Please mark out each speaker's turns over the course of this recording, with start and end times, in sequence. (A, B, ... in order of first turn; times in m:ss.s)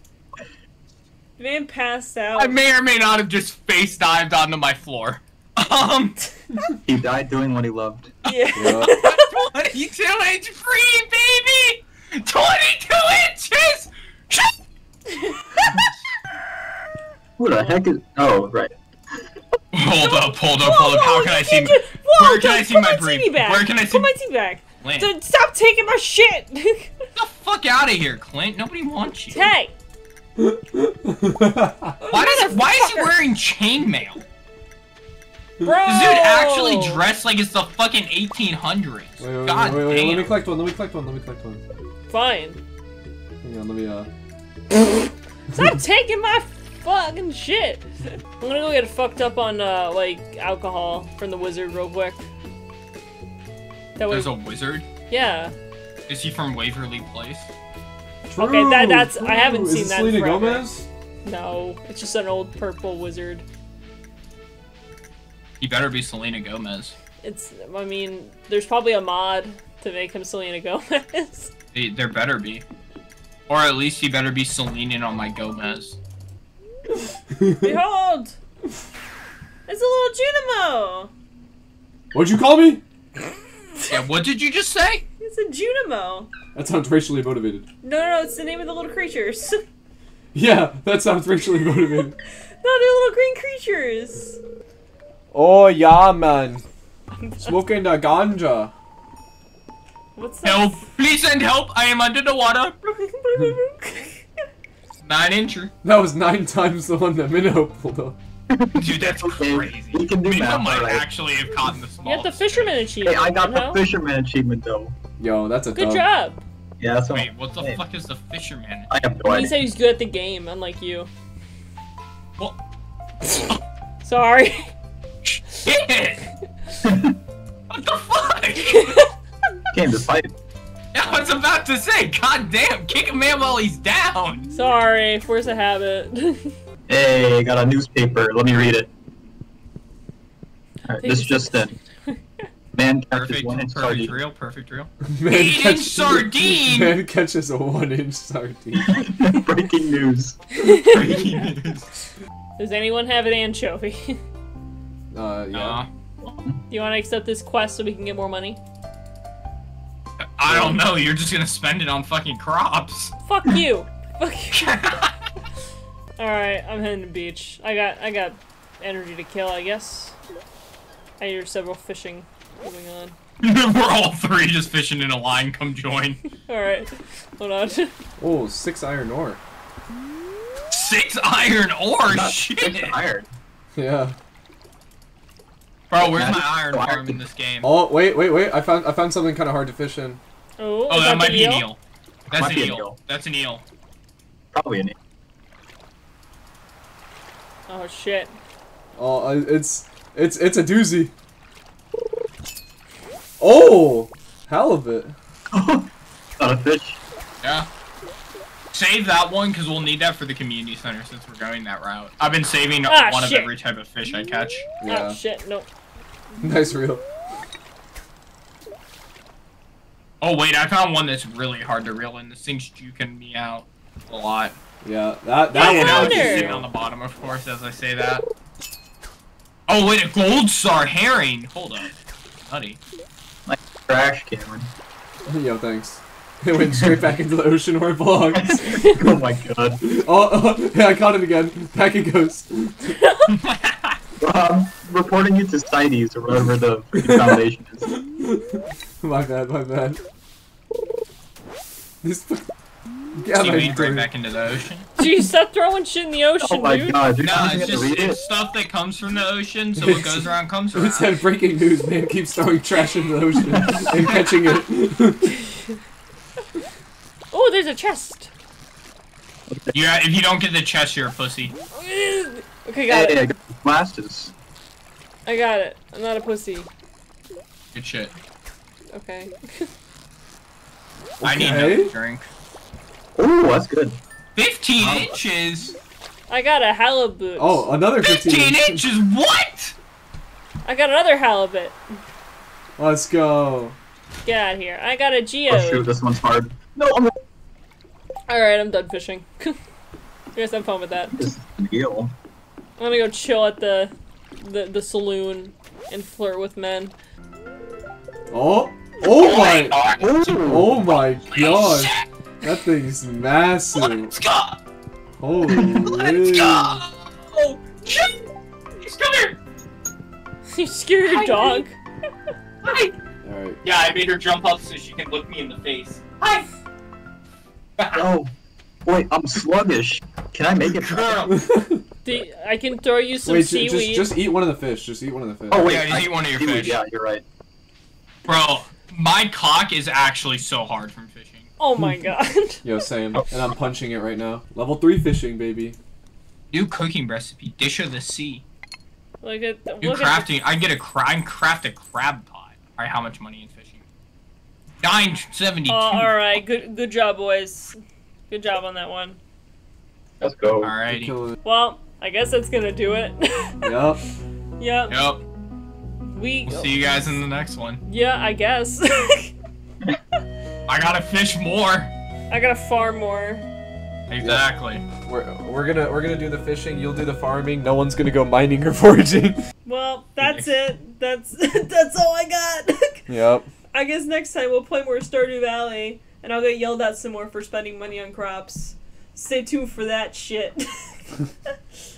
0:01.4-0:02.6 A
0:02.4-0:06.2 B
0:06.8-0:08.1 C
0:08.2-0:09.3 A
0:08.2-0:14.6 B
0:08.6-0:08.9 D
0:15.1-0:15.7 A
0:17.4-0:18.7 C
0:19.7-0:24.1 B
0:20.0-0:26.9 A
0:24.8-0:25.1 B
0:27.2-0:29.5 B
0:29.3-0:29.7 A
0:30.4-0:32.1 D
0:32.1-0:34.2 B
0:32.1-0:33.1 A
0:35.6-0:37.0 A
0:35.8-0:40.3 B
0:39.2-0:41.6 D
0:42.1-0:42.6 A
0:43.4-0:44.1 D
0:45.5-0:45.8 D
0:45.5-0:47.9 A
0:48.4-0:52.3 A
0:54.0-0:54.3 A
0:54.1-0:54.9 B
0:55.1-0:55.5 A
0:56.1-0:57.5 B
0:58.3-1:00.8 D
0:58.3-1:00.7 A
1:01.2-1:03.4 A
1:05.6-1:07.0 B
1:07.2-1:11.5 A
1:11.7-1:12.6 B
1:13.5-1:16.0 B
1:17.3-1:17.8 D
1:17.6-1:18.4 A
1:19.7-1:21.1 A
1:22.1-1:22.8 D
1:23.9-1:25.0 B
1:25.2-1:26.3 A
1:26.5-1:27.6 D
1:27.8-1:29.6 A
1:30.3-1:32.1 D
1:32.6-1:34.4 A
1:35.3-1:36.6 D
1:37.2-1:37.6 A
1:37.4-1:38.7 D
1:40.2-1:40.8 A
1:40.4-1:42.8 B
1:42.9-1:44.2 A
1:45.0-1:45.7 B
1:45.8-1:48.2 D
1:48.5-1:51.0 C
1:48.7-1:52.7 B
1:52.0-1:53.8 A
1:53.0-1:55.0 C
1:55.2-1:56.0 D
1:55.7-1:56.4 A
1:56.8-1:57.8 C
1:57.1-1:58.9 B
1:58.9-1:59.6 C
1:59.3-2:01.1 A
2:04.0-2:04.7 A
2:05.2-2:06.2 B
2:06.8-2:07.2 C
2:07.7-2:09.0 B
2:08.6-2:09.1 A
2:09.7-2:10.3 C
2:10.9-2:14.5 B
2:14.5-2:16.5 A
2:16.9-2:18.9 C
2:20.9-2:21.7 C
2:21.0-2:22.4 A
2:22.7-2:24.2 C
2:23.2-2:26.9 B
2:25.0-2:29.0 D
2:28.8-2:30.4 C
2:30.6-2:31.4 A
2:30.8-2:31.9 B
2:32.6-2:34.2 A
2:35.1-2:35.8 D
2:35.5-2:35.9 B
2:36.2-2:36.6 C
2:36.7-2:38.6 A
2:40.4-2:43.1 B
2:40.4-2:40.8 D
2:43.2-2:44.8 A
2:44.5-2:45.2 B
2:46.2-2:50.2 A
2:51.2-2:53.1 A
2:53.4-2:56.2 B
2:56.4-2:57.9 A
2:58.2-2:59.4 D
3:00.7-3:03.0 B
3:02.0-3:03.3 C
3:03.8-3:04.2 D
3:05.9-3:07.7 B
3:06.0-3:07.2 C
3:07.6-3:10.2 D
3:10.6-3:11.7 A
3:10.9-3:11.8 B
3:12.3-3:13.6 B
3:12.3-3:12.9 C
3:14.5-3:15.0 C
3:17.7-3:18.3 A
3:19.0-3:21.1 D
3:23.4-3:25.1 D
3:25.5-3:27.0 C
3:27.4-3:27.7 B
3:28.7-3:34.6 B
3:32.9-3:33.5 A
3:34.8-3:35.2 D
3:34.8-3:35.7 A
3:36.4-3:37.0 D
3:40.2-3:44.6 B
3:44.8-3:46.7 D
3:45.5-3:46.5 A
3:45.5-3:48.2 B
3:49.7-3:52.8 B
3:53.5-3:54.7 C
3:55.3-3:59.2 D
3:56.7-3:57.0 C
3:58.3-3:59.8 C
3:59.8-4:02.8 D
4:02.9-4:03.3 A
4:03.3-4:04.0 B
4:04.2-4:07.9 C
4:07.0-4:10.0 D
4:12.0-4:12.5 D
4:13.1-4:14.1 D
4:13.3-4:14.9 B
4:15.0-4:17.3 A
4:16.4-4:18.2 C
4:17.2-4:21.2 B
4:19.8-4:25.3 D
4:23.5-4:23.8 C
4:24.0-4:24.2 B
4:27.3-4:28.3 A
4:29.7-4:31.5 B
4:31.7-4:33.2 A
4:32.9-4:34.3 C
4:35.2-4:36.7 A
4:37.7-4:38.1 B
4:38.9-4:39.7 A
4:41.2-4:41.9 D
4:41.2-4:42.3 B
4:43.2-4:44.0 C
4:44.4-4:45.8 B
4:44.8-4:45.2 C
4:46.3-4:47.7 A
4:47.4-4:48.8 D
4:48.0-4:49.8 B
4:50.6-4:51.8 A
4:52.8-4:53.8 D
4:54.2-4:55.9 A
4:55.5-4:57.1 C
4:58.3-4:59.6 A
5:00.3-5:01.2 A
5:01.1-5:02.1 C
5:02.8-5:06.9 A
5:08.3-5:09.8 D
5:09.0-5:10.5 B
5:10.0-5:10.8 C
5:10.4-5:14.1 D
5:11.1-5:12.0 B
5:13.7-5:14.6 B
5:15.1-5:16.8 D
5:15.5-5:15.8 C
5:15.8-5:18.2 B
5:18.8-5:19.4 B
5:20.5-5:21.8 A
5:21.0-5:21.6 B
5:22.6-5:22.9 B
5:23.2-5:23.6 D
5:23.6-5:26.5 B
5:27.8-5:28.0 B
5:27.9-5:28.3 C
5:28.8-5:31.3 C
5:30.6-5:31.3 B
5:31.3-5:31.8 D
5:32.0-5:34.1 A
5:33.2-5:35.8 D
5:35.5-5:37.2 C
5:35.6-5:36.8 B
5:38.2-5:41.5 B
5:41.6-5:42.6 A
5:42.6-5:45.8 D
5:46.5-5:48.4 B
5:49.2-5:50.4 A
5:49.8-5:53.8 B
5:54.8-5:56.1 B
5:55.7-5:57.8 A
5:58.3-5:59.2 A
6:00.2-6:00.7 C
6:00.6-6:01.1 B
6:00.9-6:01.4 D
6:01.4-6:03.8 A
6:03.6-6:04.0 D
6:04.6-6:05.0 A
6:04.9-6:05.2 B
6:06.1-6:07.1 A
6:06.4-6:07.8 B
6:07.8-6:09.3 A
6:10.7-6:11.9 B
6:12.3-6:13.4 A
6:14.1-6:14.8 B
6:14.2-6:14.4 D
6:15.0-6:19.4 D
6:19.6-6:23.1 A
6:20.2-6:20.5 B
6:23.1-6:23.5 D
6:23.7-6:31.2 A